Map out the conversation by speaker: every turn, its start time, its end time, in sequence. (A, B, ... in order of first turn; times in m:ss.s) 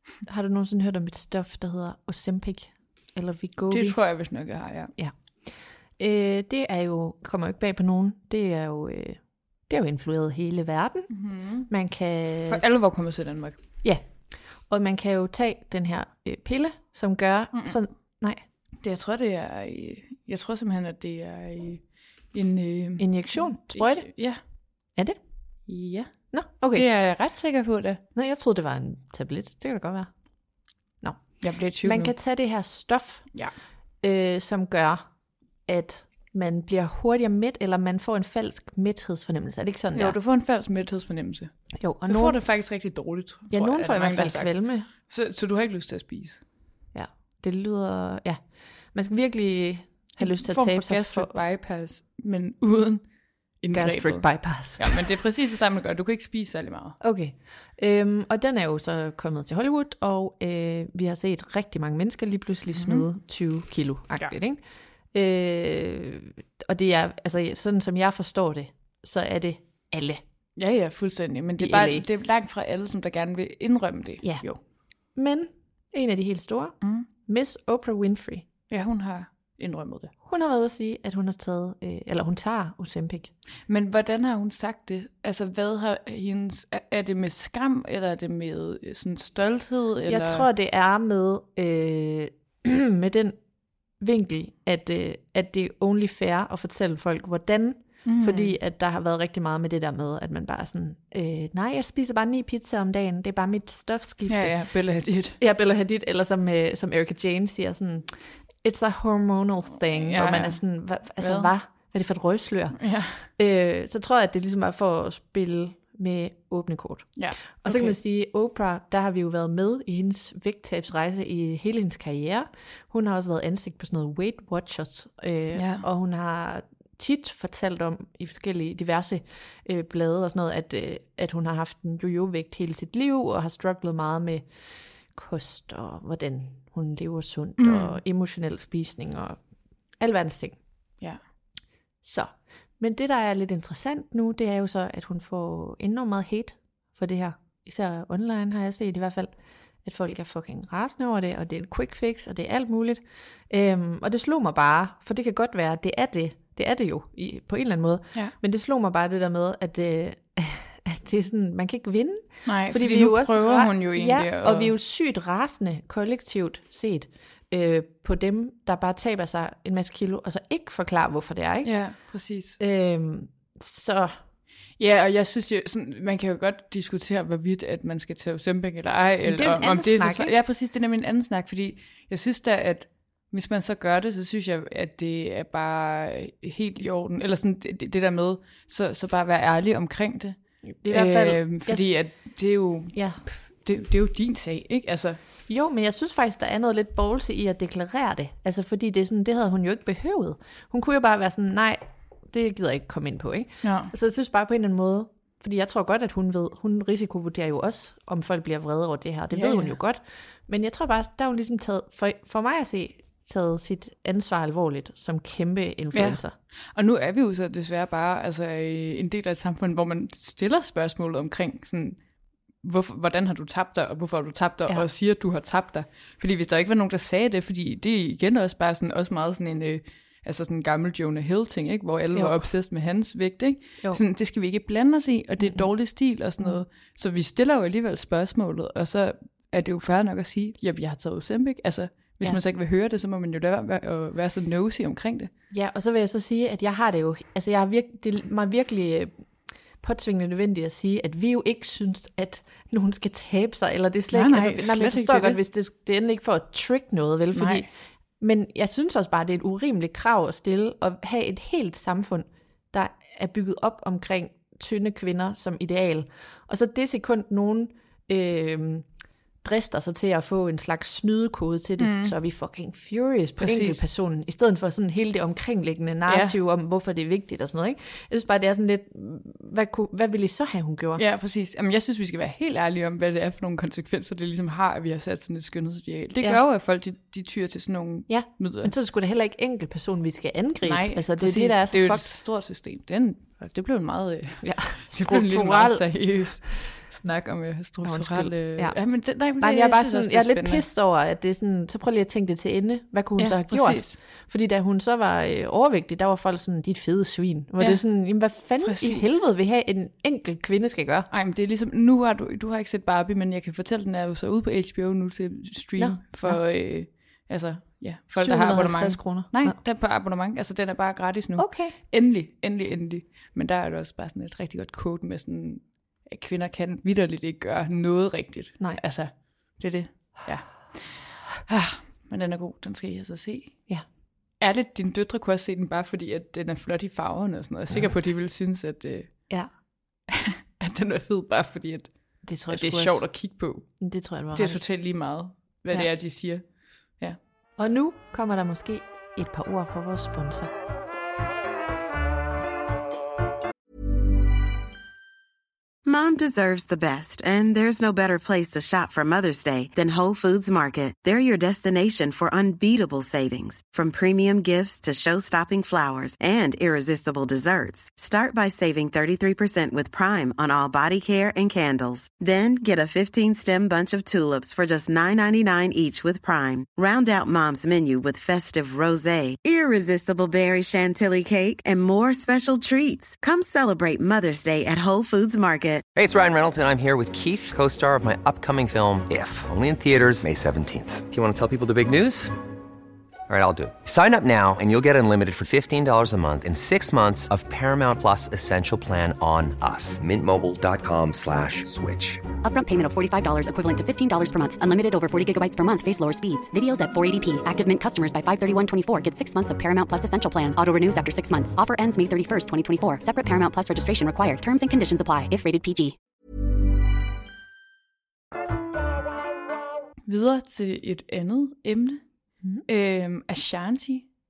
0:00.2-0:04.0 A
0:03.7-0:04.9 B
0:05.0-0:12.6 A
0:11.1-0:11.7 B
0:12.5-0:13.6 B
0:13.8-0:18.4 A
0:17.5-0:17.8 B
0:18.8-0:24.4 B
0:23.0-0:24.1 A
0:25.7-0:26.1 B
0:26.3-0:26.9 A
0:26.7-0:28.0 B
0:28.1-0:30.1 A
0:31.0-0:33.4 A
0:31.4-0:32.1 B
0:34.0-0:35.0 A
0:35.6-0:40.2 A
0:39.9-0:46.4 B
0:41.8-0:42.4 A
0:43.5-0:44.9 A
0:46.9-0:51.4 A
0:50.2-0:57.0 B
0:53.7-0:55.1 A
0:57.0-1:10.2 A
1:02.7-1:03.0 B
1:10.6-1:14.6 B
1:11.6-1:12.0 A
1:14.2-1:14.5 A
1:15.1-1:18.4 A
1:16.8-1:17.1 B
1:18.7-1:20.1 B
1:20.2-1:23.3 A
1:23.7-1:30.5 B
1:30.0-1:33.4 A
1:33.9-1:44.6 A
1:38.0-1:38.6 B
1:44.3-1:45.4 B
1:45.4-2:14.5 A
1:50.0-1:50.6 B
1:51.2-1:51.5 B
1:52.8-1:53.2 B
1:57.2-1:57.9 B
2:05.5-2:05.8 B
2:15.1-2:19.4 A
2:17.6-2:18.0 B
2:20.0-2:20.6 A
2:22.0-2:29.3 A
2:29.8-2:51.9 A
2:42.4-2:44.7 B
2:51.6-2:52.6 B
2:52.6-2:54.2 A
2:54.8-3:15.2 B
2:59.2-3:00.4 A
3:10.8-3:12.0 A
3:12.9-3:13.2 A
3:15.5-3:36.3 A
3:23.6-3:23.9 B
3:29.3-3:29.7 B
3:35.9-3:36.2 B
3:36.7-3:42.0 B
3:42.6-4:05.3 B
3:52.1-3:52.4 A
3:55.4-3:55.7 A
4:05.5-4:09.2 A
4:09.8-4:17.7 A
4:14.1-4:15.4 B
4:17.3-4:17.7 B
4:18.2-4:28.9 A
4:29.4-4:41.0 A
4:31.8-4:32.1 B
4:33.4-4:33.8 B
4:36.1-4:36.4 B
4:41.0-4:48.7 B
4:48.1-4:52.1 A
4:50.6-5:00.6 B
4:54.4-4:56.2 A
4:57.8-5:11.1 A
5:03.2-5:04.0 B
5:08.4-5:09.1 B
5:11.1-5:33.6 B
5:15.8-5:16.4 A
5:18.1-5:19.6 A
5:21.4-5:21.8 A
5:34.4-5:39.3 B
5:40.1-5:43.8 B
5:42.2-5:43.0 A
5:43.8-5:44.6 A
5:44.3-5:47.2 B
5:47.6-5:50.5 A
5:55.8-6:25.8 C
6:25.9-6:32.3 D
6:33.3-6:42.2 D
6:42.4-6:56.0 E
7:00.1-7:02.0 B
7:02.6-7:04.1 B